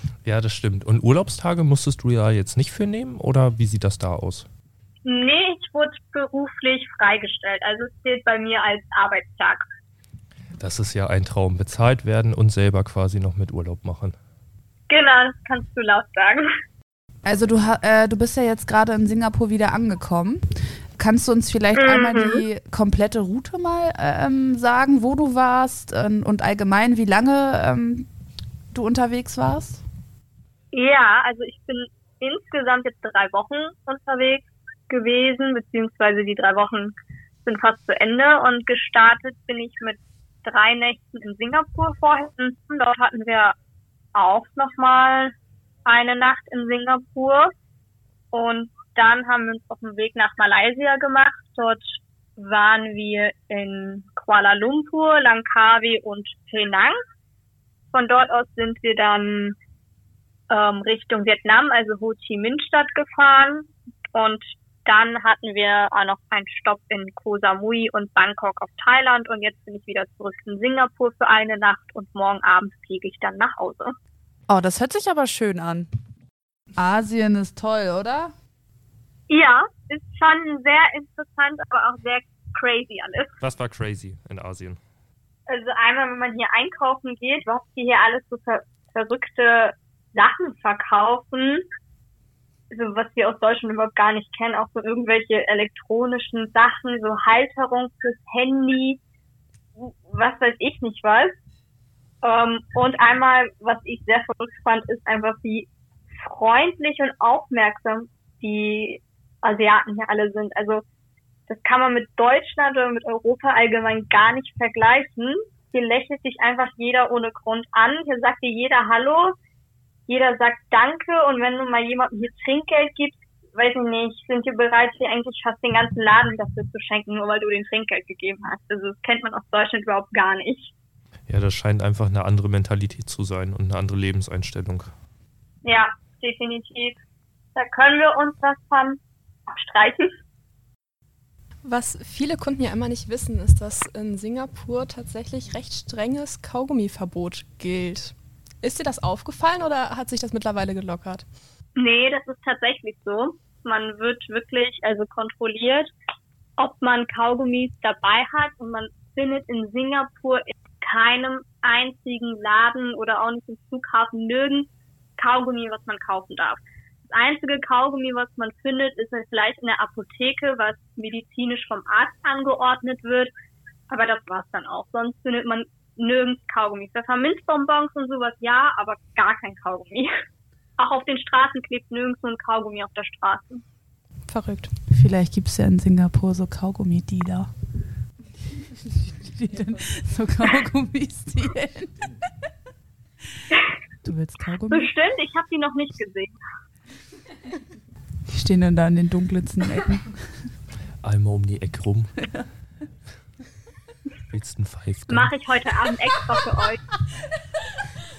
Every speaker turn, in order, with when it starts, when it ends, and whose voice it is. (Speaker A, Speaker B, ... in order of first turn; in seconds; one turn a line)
Speaker A: 0.2-4.5
Speaker B: 5.0-9.7
Speaker A: 10.6-14.2
Speaker B: 14.9-16.5
Speaker C: 17.2-28.1
Speaker B: 21.8-22.4
Speaker C: 28.7-29.9
Speaker B: 30.7-43.5
Speaker B: 44.1-45.3
Speaker B: 45.9-47.5
Speaker B: 48.3-57.0
Speaker B: 57.9-59.6
Speaker B: 60.5-74.0
Speaker C: 74.5-75.9
Speaker C: 76.8-78.3
Speaker B: 79.3-83.3
Speaker A: 83.4-84.8
Speaker B: 85.5-91.7
Speaker B: 92.7-99.0
Speaker B: 99.8-101.3
Speaker B: 102.2-110.8
Speaker B: 111.5-119.3
Speaker B: 120.1-130.7
Speaker A: 131.3-134.9
Speaker B: 135.6-137.0
Speaker B: 137.6-140.1
Speaker D: 141.6-151.3
Speaker B: 151.8-155.9
Speaker B: 156.6-173.3
Speaker B: 173.9-180.1
Speaker B: 180.8-183.6
Speaker D: 184.3-184.7
Speaker C: 184.9-187.5
Speaker C: 189.1-192.2
Speaker C: 194.0-194.9
Speaker B: 194.7-196.4
Speaker C: 198.3-200.2
Speaker A: 201.0-202.2
Speaker A: 204.3-205.3
Speaker B: 205.1-206.8